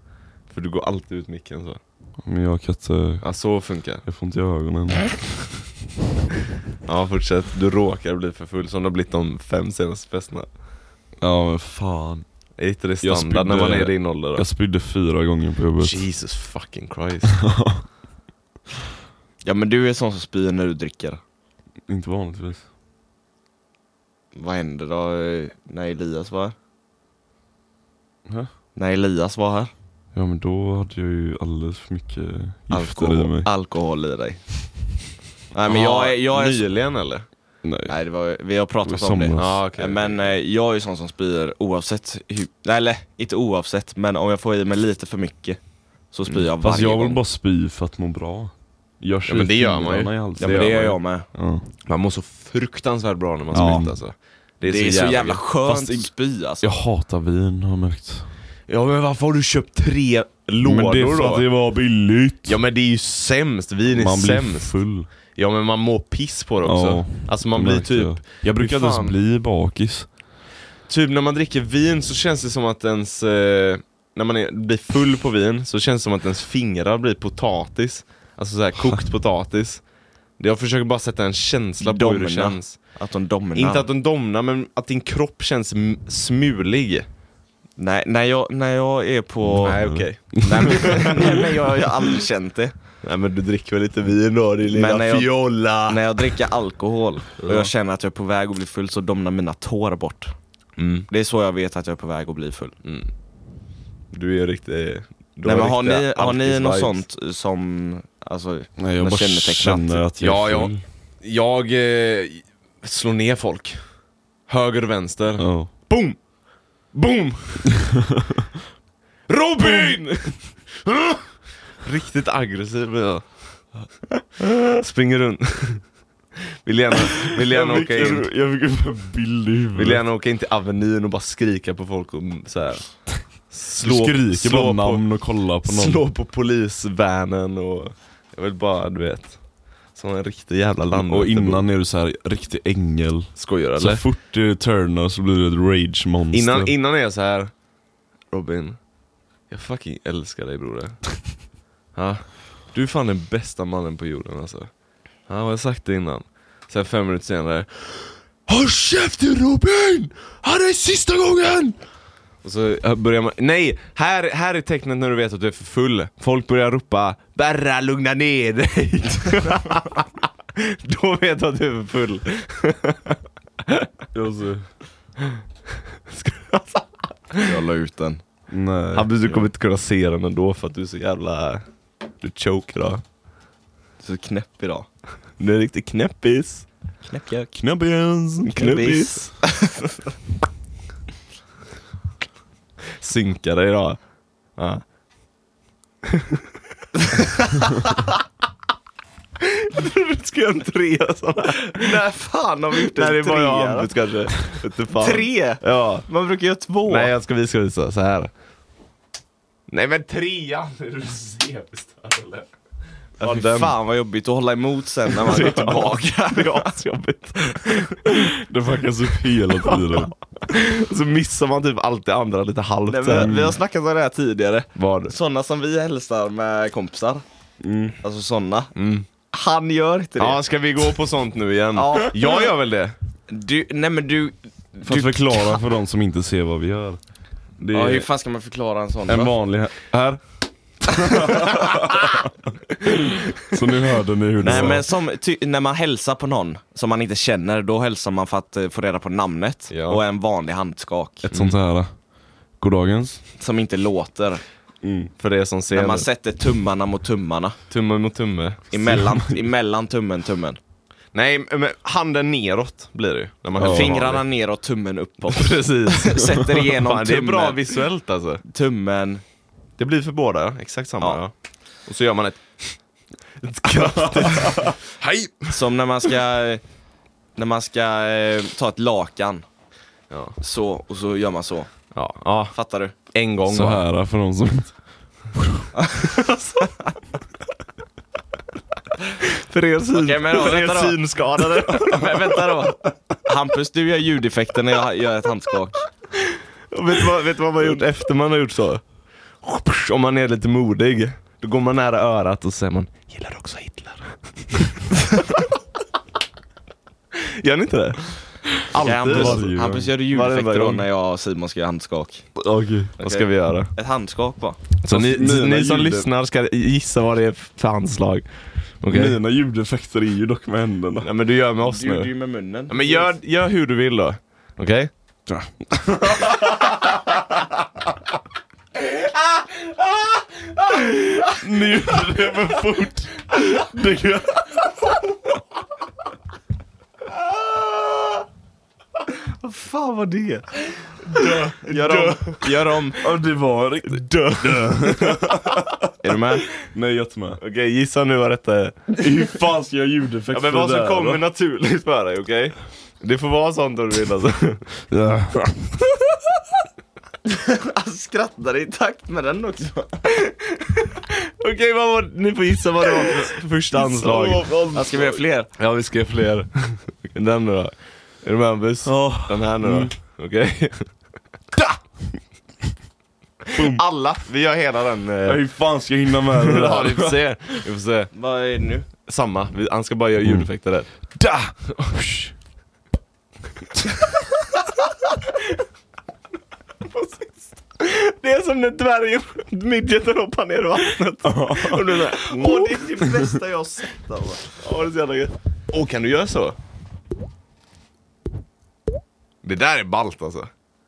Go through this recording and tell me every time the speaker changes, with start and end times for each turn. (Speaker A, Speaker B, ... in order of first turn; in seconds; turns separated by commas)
Speaker A: 0.4-1.8, Speaker B: 2.2-3.4, Speaker A: 3.2-4.0, Speaker B: 4.0-5.4, Speaker A: 6.8-10.5, Speaker B: 11.2-12.3, Speaker A: 12.6-14.4, Speaker B: 13.0-16.0, Speaker A: 15.8-17.4, Speaker B: 17.5-17.8, Speaker C: 19.4-21.2, Speaker B: 21.9-22.6, Speaker C: 24.3-26.5, Speaker B: 28.2-28.5, Speaker C: 28.7-29.7, Speaker B: 30.1-33.5, Speaker C: 32.7-34.8, Speaker C: 35.5-36.7, Speaker A: 35.7-37.2, Speaker B: 37.6-37.9, Speaker C: 37.9-47.2, Speaker B: 38.8-39.6, Speaker A: 39.3-40.3, Speaker B: 46.6-50.8, Speaker A: 49.3-51.0, Speaker C: 50.4-51.3, Speaker B: 51.3-51.7, Speaker A: 51.9-56.0, Speaker B: 53.5-54.0, Speaker C: 53.5-53.9, Speaker C: 54.6-56.7, Speaker B: 56.6-58.3, Speaker A: 58.7-61.5, Speaker B: 60.6-62.6, Speaker A: 62.4-64.8, Speaker B: 63.9-65.1, Speaker A: 65.3-69.2, Speaker B: 66.6-70.1, Speaker A: 70.9-79.8, Speaker A: 80.4-83.0, Speaker C: 81.8-83.9, Speaker A: 83.5-87.1, Speaker C: 87.8-92.7, Speaker B: 89.4-90.8, Speaker A: 89.6-91.3, Speaker A: 93.0-96.4, Speaker C: 94.7-100.3, Speaker A: 97.4-97.7, Speaker A: 100.8-101.1, Speaker C: 101.1-102.8, Speaker A: 102.8-103.1, Speaker A: 104.1-107.0, Speaker C: 105.4-110.0, Speaker B: 108.8-110.8, Speaker A: 110.2-116.2, Speaker B: 115.4-115.7, Speaker A: 116.9-117.8, Speaker A: 119.3-123.7, Speaker A: 124.5-125.9, Speaker A: 126.6-128.3, Speaker B: 127.4-130.0, Speaker A: 129.7-141.6, Speaker B: 133.8-136.0, Speaker B: 140.9-146.7, Speaker A: 143.3-144.0, Speaker A: 146.3-147.5, Speaker A: 148.3-148.8, Speaker A: 149.5-151.4, Speaker A: 151.9-154.7, Speaker A: 155.2-161.8, Speaker A: 162.4-173.9, Speaker B: 174.1-174.7, Speaker A: 176.1-177.5, Speaker C: 177.4-178.2, Speaker B: 178.5-179.3, Speaker A: 178.9-181.6, Speaker A: 182.2-183.0, Speaker C: 184.0-184.9, Speaker A: 185.4-186.7, Speaker C: 187.0-187.6, Speaker B: 187.5-188.6, Speaker A: 188.4-189.4, Speaker C: 188.6-190.0, Speaker A: 193.0-194.8, Speaker A: 199.4-202.0, Speaker C: 201.7-203.9, Speaker A: 202.9-206.1, Speaker C: 205.0-207.1, Speaker A: 206.8-208.3, Speaker A: 209.7-212.5, Speaker A: 213.2-213.7, Speaker C: 213.2-216.7, Speaker A: 215.1-218.3, Speaker B: 218.4-220.1, Speaker A: 219.5-223.3, Speaker C: 222.9-227.2, Speaker B: 223.1-223.6, Speaker A: 224.7-225.1, Speaker B: 227.6-228.0, Speaker C: 228.0-228.7, Speaker A: 228.7-229.1, Speaker C: 229.3-230.4, Speaker A: 230.2-232.9, Speaker C: 231.7-232.4, Speaker C: 233.3-235.6, Speaker B: 234.8-237.0, Speaker B: 237.6-238.1, Speaker C: 237.7-239.3, Speaker B: 239.1-239.9, Speaker A: 239.9-240.2, Speaker B: 241.0-241.7, Speaker C: 241.2-241.8, Speaker B: 243.4-244.8, Speaker C: 244.4-251.2, Speaker A: 249.7-250.0, Speaker B: 251.2-251.9, Speaker A: 251.3-251.6, Speaker B: 252.6-253.2, Speaker C: 253.4-254.4, Speaker B: 254.8-255.1, Speaker A: 255.2-256.1, Speaker C: 255.7-257.6, Speaker A: 257.7-258.6, Speaker C: 258.7-260.6, Speaker B: 258.9-259.3, Speaker A: 261.1-264.2, Speaker B: 263.6-264.0, Speaker C: 263.6-267.6, Speaker A: 265.3-268.4, Speaker C: 268.5-269.2, Speaker A: 269.8-272.8, Speaker A: 273.4-275.6, Speaker B: 274.1-274.7, Speaker C: 275.5-276.6, Speaker C: 277.4-279.4, Speaker A: 280.1-280.4, Speaker C: 280.4-281.7, Speaker A: 281.9-283.8, Speaker C: 282.5-283.0, Speaker B: 283.5-284.7, Speaker B: 285.4-285.6, Speaker C: 285.7-286.7, Speaker A: 289.2-292.7, Speaker C: 289.9-295.9, Speaker A: 296.7-298.8, Speaker A: 299.4-304.9, Speaker A: 307.1-309.5, Speaker C: 308.8-312.3, Speaker B: 308.8-309.9, Speaker A: 310.1-310.9, Speaker B: 312.4-312.9, Speaker C: 313.0-314.6, Speaker A: 313.0-313.7, Speaker A: 314.8-319.2, Speaker B: 314.9-316.1, Speaker B: 318.9-321.1, Speaker A: 321.0-322.1, Speaker C: 321.6-323.1, Speaker A: 322.7-324.9, Speaker B: 325.3-326.8, Speaker B: 331.2-334.7, Speaker C: 339.4-340.4, Speaker A: 341.1-343.1, Speaker B: 341.1-341.6, Speaker C: 341.6-342.9, Speaker B: 343.0-345.9, Speaker A: 343.9-345.6, Speaker C: 346.0-346.5, Speaker B: 346.6-347.4, Speaker A: 347.4-348.9, Speaker B: 349.0-351.2, Speaker A: 350.3-354.6, Speaker B: 354.9-355.5, Speaker C: 357.2-360.1, Speaker A: 361.1-364.6, Speaker C: 363.9-365.5, Speaker B: 364.0-365.2, Speaker A: 365.6-371.0, Speaker B: 368.8-369.9, Speaker A: 373.5-375.4, Speaker B: 373.5-373.8, Speaker B: 375.2-377.2, Speaker A: 376.3-378.1, Speaker C: 378.1-378.9, Speaker A: 379.0-380.9, Speaker B: 380.2-380.5, Speaker B: 381.1-382.3, Speaker A: 386.9-392.9, Speaker B: 391.2-391.8, Speaker C: 392.1-394.5, Speaker A: 394.6-396.6, Speaker A: 399.4-400.5